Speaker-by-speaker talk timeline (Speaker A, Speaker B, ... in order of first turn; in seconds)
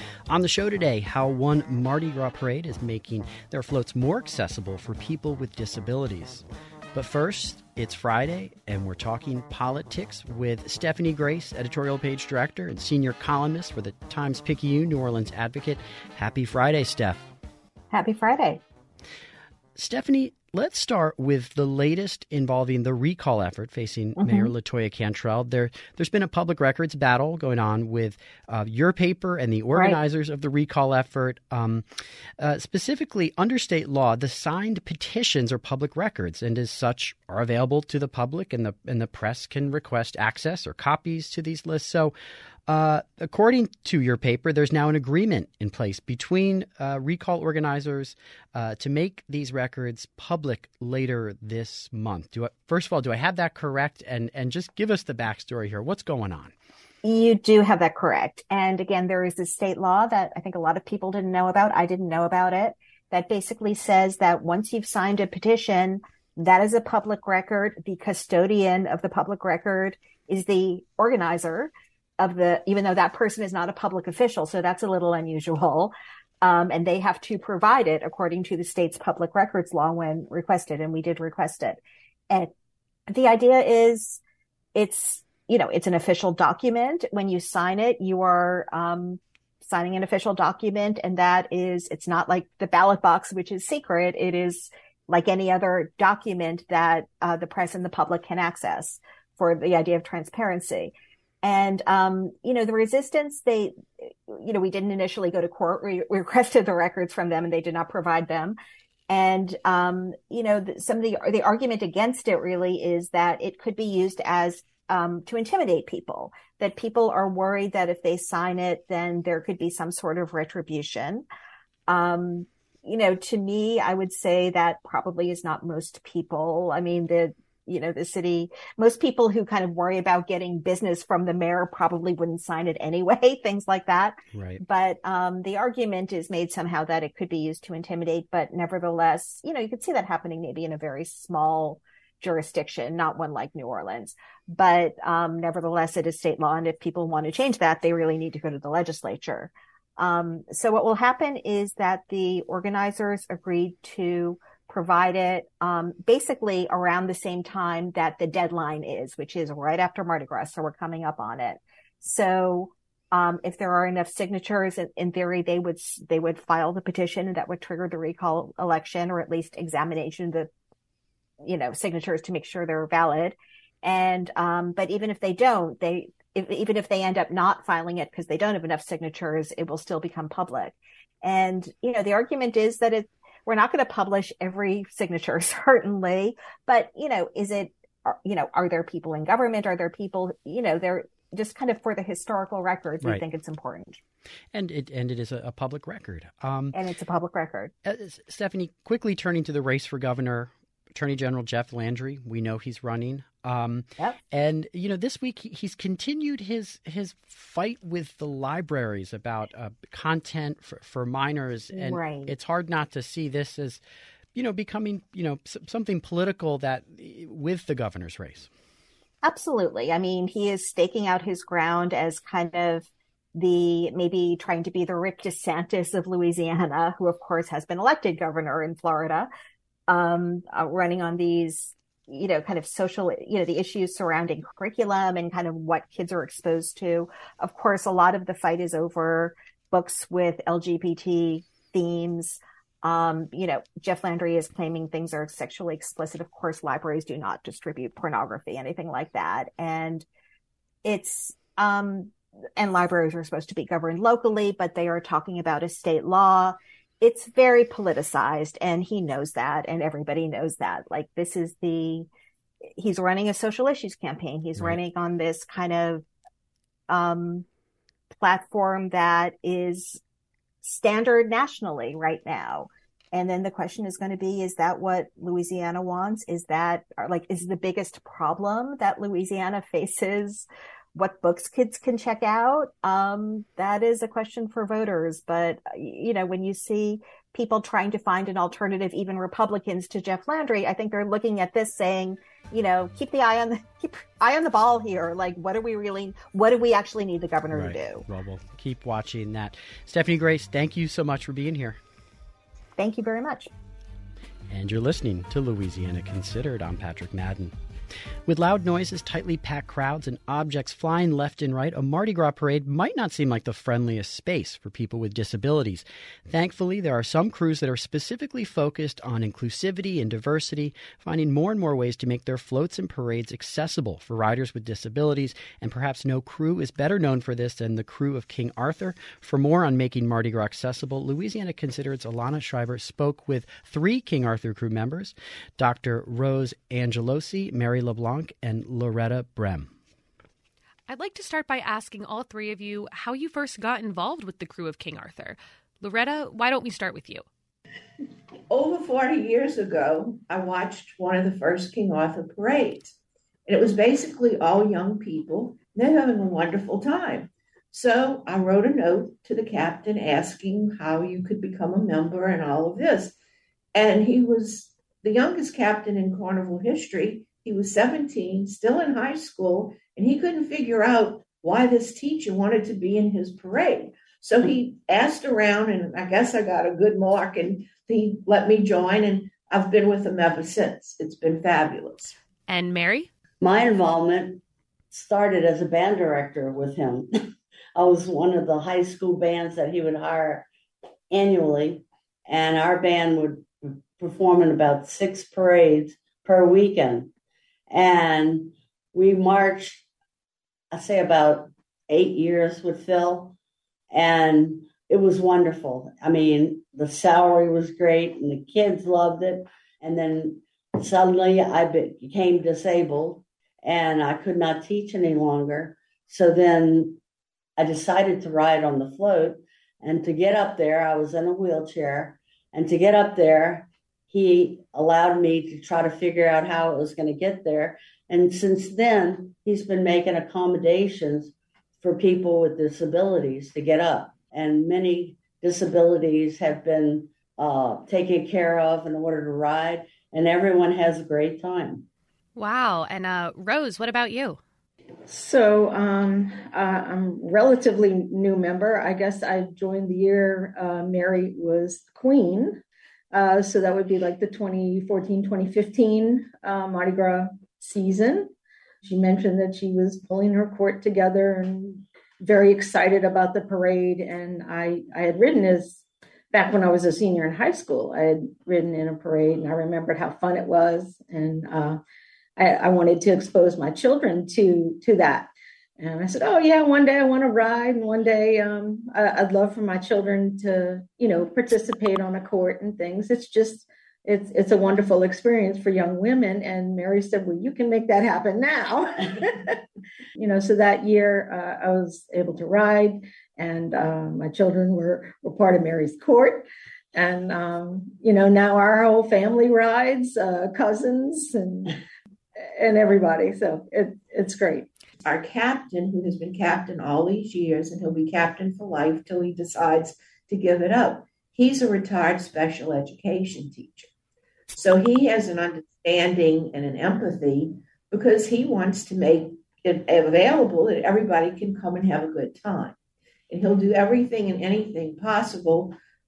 Speaker A: 0.3-17.2, 19.8-31.8, 32.4-42.1, 42.7-56.5, 134.3-134.6, 194.5-196.8, 197.8-213.8, 214.3-218.5, 297.5-301.8, 304.5-307.5, 308.2-339.7
Speaker B: 17.9-18.6, 24.2-24.5, 57.0-82.5, 83.1-84.2, 84.7-108.6, 109.1-121.2, 121.9-170.5, 171.4-194.0, 196.7-197.7, 211.7-212.3, 219.2-229.3, 229.9-250.1, 250.8-262.1, 262.8-266.1, 266.9-267.4, 268.1-270.0, 270.6-298.0, 302.8-303.5
Speaker C: 340.9-347.2, 382.5-383.1, 442.4-444.4
Speaker D: 348.5-352.9, 353.5-363.1, 363.7-382.1, 505.0-513.9, 514.5-522.7, 523.3-525.8
Speaker E: 383.4-387.1, 387.7-390.5, 391.1-397.1, 397.7-399.8, 400.7-403.4, 403.9-417.0, 417.6-441.9
Speaker F: 445.1-452.6, 453.1-458.3, 458.8-471.8, 472.4-489.6, 490.1-501.8, 502.4-504.7